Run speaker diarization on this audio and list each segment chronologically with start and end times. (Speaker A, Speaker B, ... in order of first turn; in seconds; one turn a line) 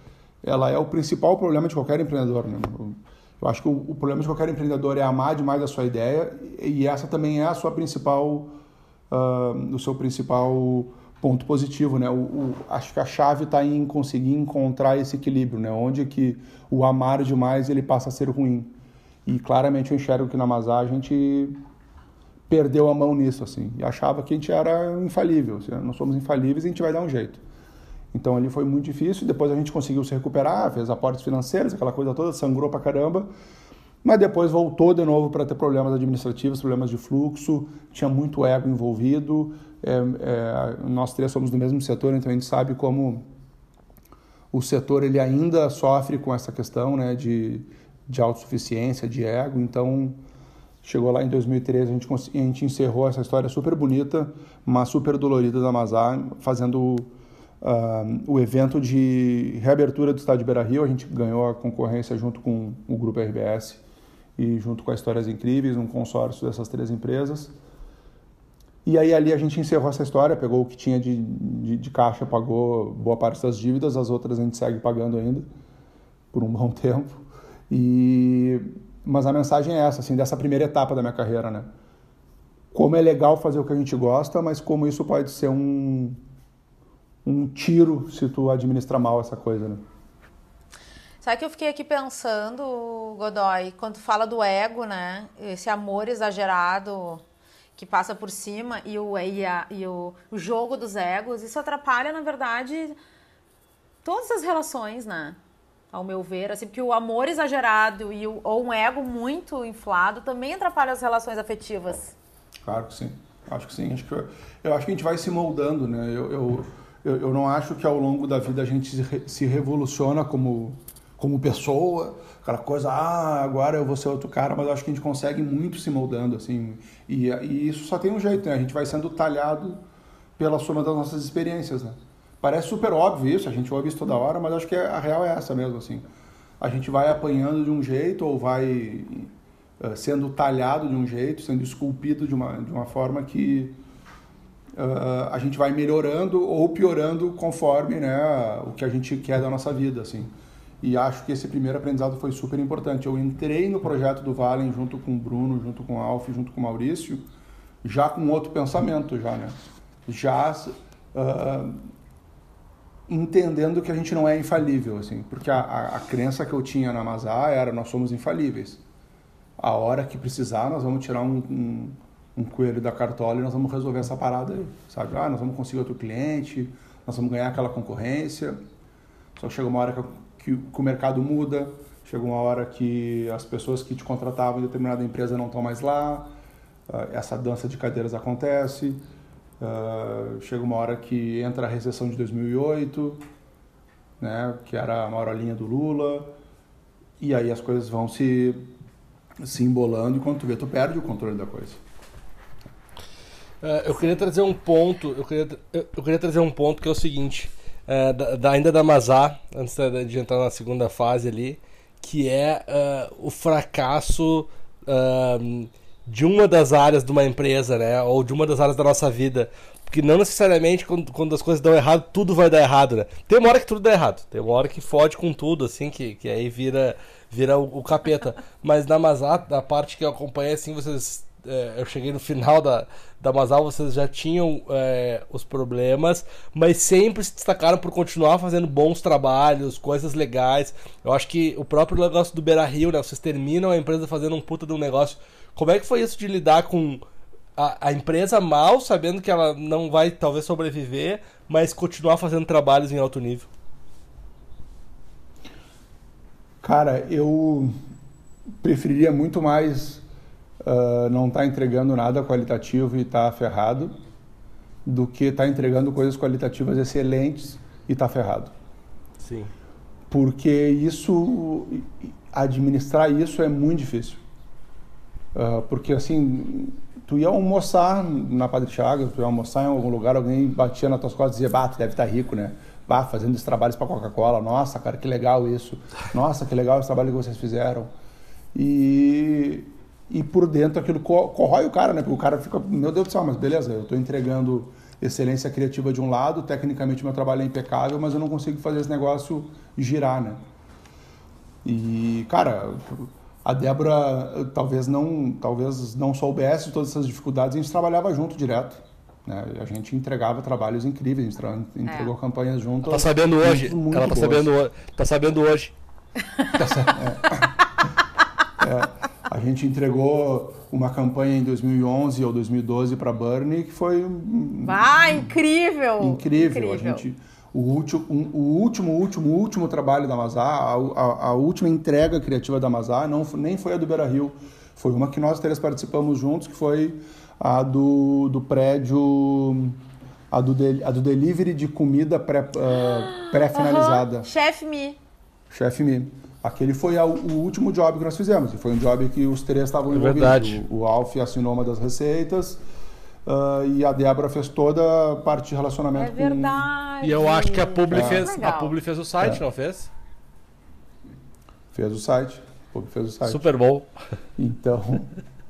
Speaker A: 0.4-8.5
Speaker A: 9.1-18.7
Speaker A: 19.2-21.6
Speaker A: 22.5-27.4
Speaker A: 28.1-33.3
Speaker A: 34.0-43.2
Speaker A: 44.5-50.2
Speaker A: 50.8-63.8
Speaker A: 64.4-67.5
Speaker A: 68.8-75.5
Speaker A: 76.3-81.7
Speaker A: 82.7-86.2
Speaker A: 87.2-89.8
Speaker B: 91.2-97.2
Speaker B: 97.8-103.0
Speaker B: 104.0-105.4
Speaker B: 105.9-112.1
Speaker A: 112.6-129.8
Speaker A: 130.4-136.1
Speaker A: 136.6-143.8
Speaker A: 144.8-157.2
Speaker A: 157.8-161.8
Speaker A: 163.1-168.8
Speaker A: 169.6-178.6
Speaker A: 179.3-186.3
Speaker A: 186.9-189.0
Speaker A: 189.6-193.2
Speaker A: 194.2-196.3
Speaker A: 197.2-198.7
Speaker A: 199.4-201.8
Speaker C: 203.6-247.0
Speaker C: 247.6-253.5
Speaker A: 256.6-257.7
Speaker A: 258.6-260.0
Speaker A: 260.6-263.9
Speaker A: 264.9-268.5
Speaker C: 269.2-269.5
Speaker A: 270.1-274.2
Speaker A: 275.3-287.9
Speaker A: 288.5-300.4
Speaker A: 301.6-314.5
Speaker B: 311.9-312.1
Speaker C: 312.8-315.7
Speaker A: 316.5-317.6
Speaker A: 318.6-325.4
Speaker B: 324.6-327.1
Speaker A: 326.0-339.8
Speaker A: 340.3-344.3
Speaker B: 342.8-345.0
Speaker A: 345.5-352.6
Speaker C: 349.9-350.6
Speaker A: 353.2-356.7
Speaker B: 355.9-358.8
Speaker C: 357.0-359.9
Speaker A: 357.9-358.3
Speaker A: 361.7-363.4
Speaker C: 363.2-363.9
Speaker A: 364.4-365.1